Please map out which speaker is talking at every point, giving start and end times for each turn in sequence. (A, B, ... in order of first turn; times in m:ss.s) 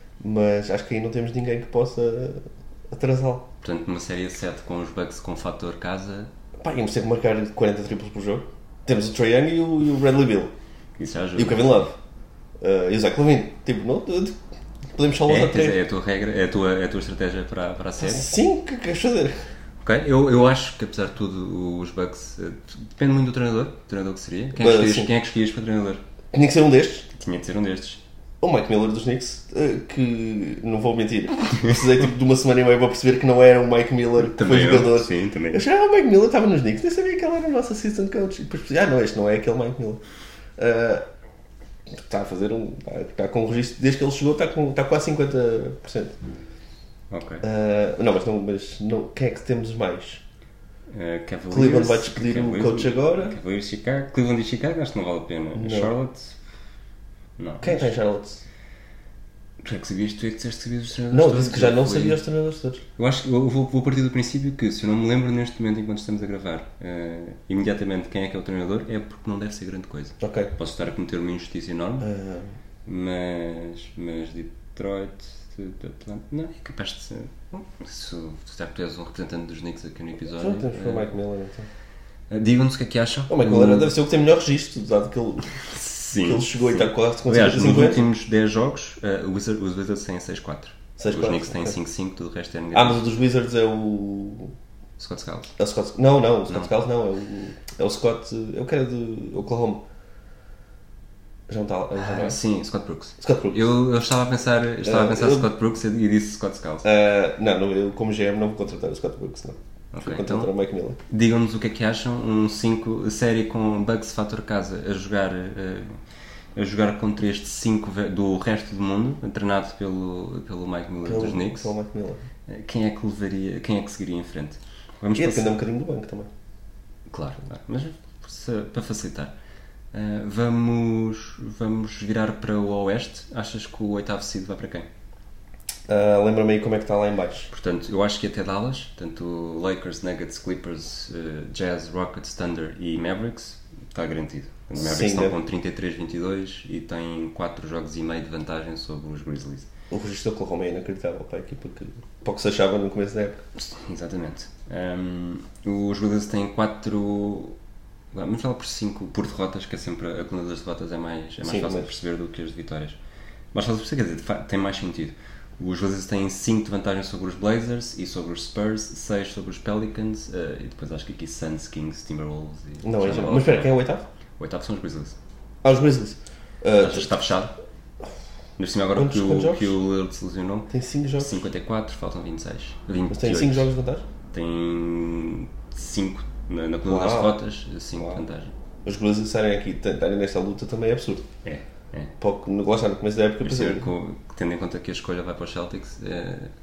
0:00.2-0:03.5 A
0:03.6-0:06.3 B
0:06.6-0:10.5 A
0:11.0-0:11.9 B
0:11.4-0:12.0 A
0:12.6-0:14.4 A
0:14.9-0:15.8 A
0:15.3-0:18.3 B
0:18.0-0:19.4 A
0:19.8-0:26.0 B
0:24.6-0:25.1 A
0:26.3-0:27.1 A
0:27.1-0:28.0 B
0:28.4-0:40.0 A
0:34.2-0:35.6 B
0:40.6-0:41.0 A
0:41.9-0:46.2 A
0:47.1-0:47.4 B
0:47.4-0:50.2 A
0:50.9-0:56.4 B
0:51.5-0:53.4 A
0:55.6-0:55.9 A
0:57.4-0:58.0 B
0:57.6-0:58.4 A
0:59.6-1:02.2 B
1:01.1-1:02.8 A
1:03.0-1:12.1 B
1:10.2-1:10.5 A
1:12.0-1:12.6 A
1:12.9-1:21.1 B
1:20.4-1:21.7 A
1:22.3-1:23.9 B
1:23.3-1:25.6 A
1:25.6-1:33.0 B
1:26.2-1:28.1 A
1:31.0-1:31.8 A
1:32.7-1:34.5 A
1:35.0-1:35.5 B
1:35.6-1:39.8 A
1:41.5-1:42.4 A
1:42.0-1:46.9 B
1:43.2-1:43.7 A
1:44.8-1:45.5 A
1:46.8-1:51.0 A
1:49.9-1:50.5 B
1:51.1-1:56.0 B
1:56.6-2:01.7 B
2:01.0-2:02.2 A
2:02.5-2:05.6 B
2:05.2-2:06.3 A
2:07.1-2:09.3 B
2:09.9-2:14.9 B
2:15.9-2:17.5 A
2:17.5-2:29.7 B
2:24.8-2:25.4 A
2:29.9-2:33.4 A
2:33.6-2:37.6 B
2:38.1-2:43.0 B
2:41.4-2:41.9 A
2:43.5-2:53.8 B
2:52.8-2:54.0 A
2:54.4-2:55.2 B
2:55.6-2:57.1 A
2:56.8-2:57.5 B
2:58.6-3:03.7 B
2:58.9-2:59.8 A
3:00.7-3:01.4 A
3:03.1-3:04.1 A
3:04.3-3:08.5 B
3:06.9-3:07.4 A
3:08.8-3:11.3 A
3:11.4-3:12.1 B
3:12.2-3:13.9 A
3:13.4-3:16.5 B